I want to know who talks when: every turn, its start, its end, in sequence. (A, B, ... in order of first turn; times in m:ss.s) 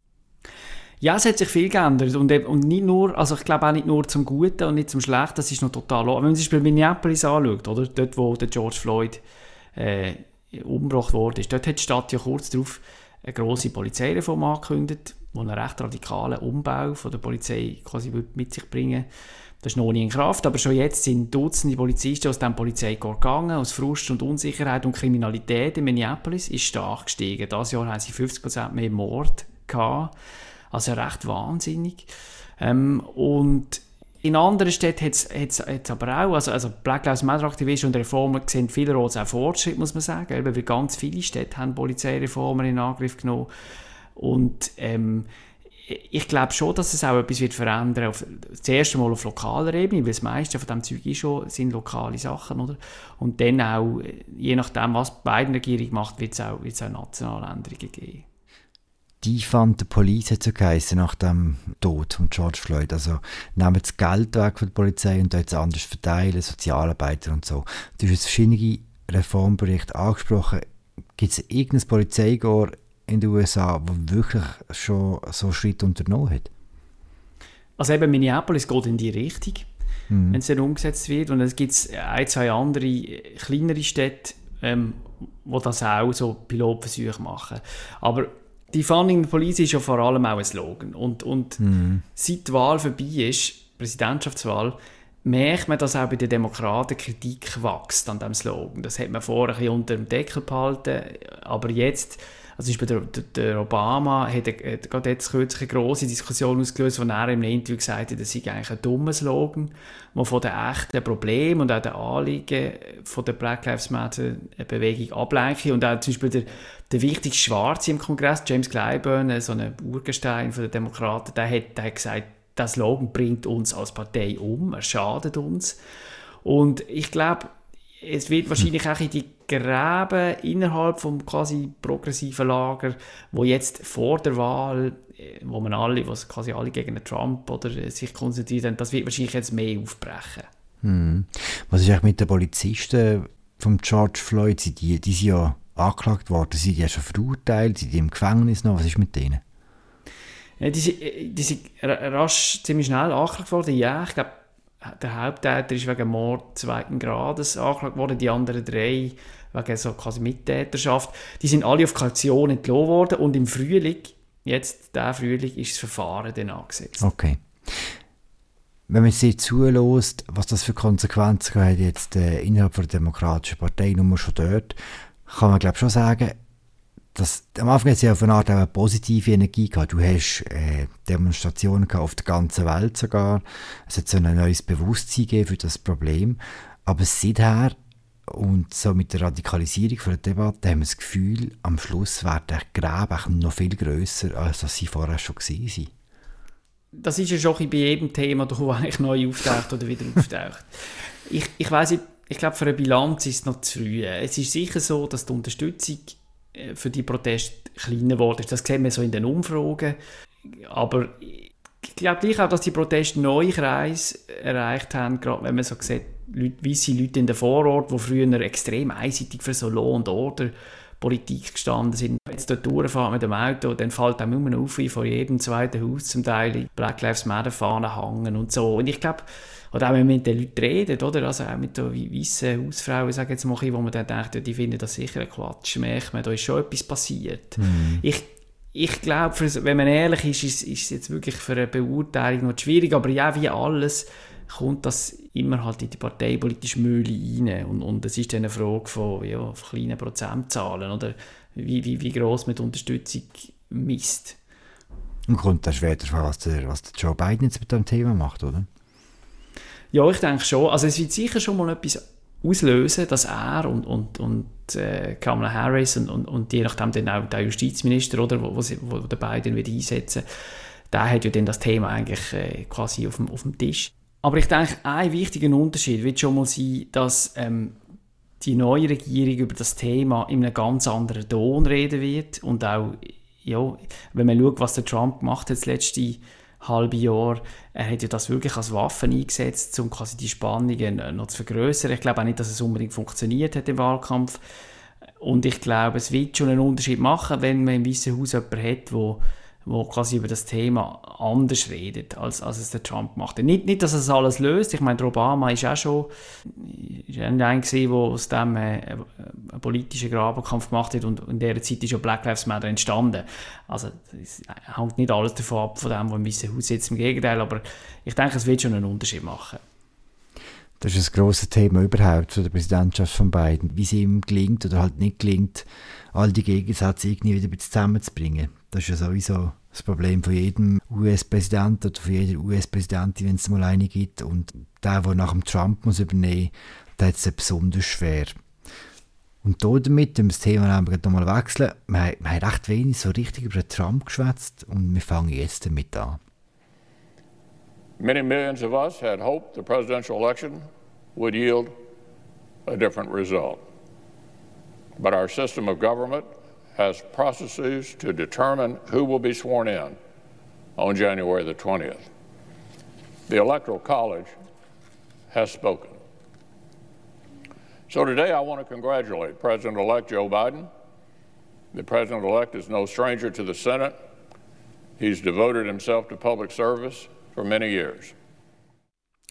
0:01.0-0:09.2 A
0:09.8-0:19.1 A
0:19.6-0:30.1 A
0:30.7-0:32.1 A
0:32.6-0:43.5 A
0:44.2-0:45.3 A
0:45.9-0:58.2 A
0:59.2-1:10.6 B
1:11.2-1:16.5 B
1:17.8-1:19.6 A
1:20.1-1:20.4 B
1:20.3-1:31.6 A
1:31.6-1:32.0 B
1:32.1-2:05.8 A
2:06.4-2:20.5 A
2:20.8-2:29.4 B
2:30.6-2:47.1 A
2:47.0-2:48.0 B
2:48.9-2:56.4 B
2:57.1-3:07.8 B
3:08.3-3:15.9 B
3:16.9-3:20.7 A
3:21.2-3:30.0 A
3:30.5-4:14.4 A
3:57.6-3:58.0 B
4:15.3-4:18.7 B
4:19.9-4:30.2 A
4:30.9-4:37.8 A
4:38.4-4:54.4 A
4:55.2-5:19.6 A
5:20.8-5:38.4 B
5:39.4-5:46.2 B
5:48.0-5:51.7 C
5:52.6-5:53.6 C
5:55.0-6:00.0 C
6:00.8-6:02.1 C
6:03.3-6:04.3 C
6:05.3-6:06.0 C
6:07.9-6:10.7 C
6:11.7-6:14.0 C
6:15.0-6:18.1 C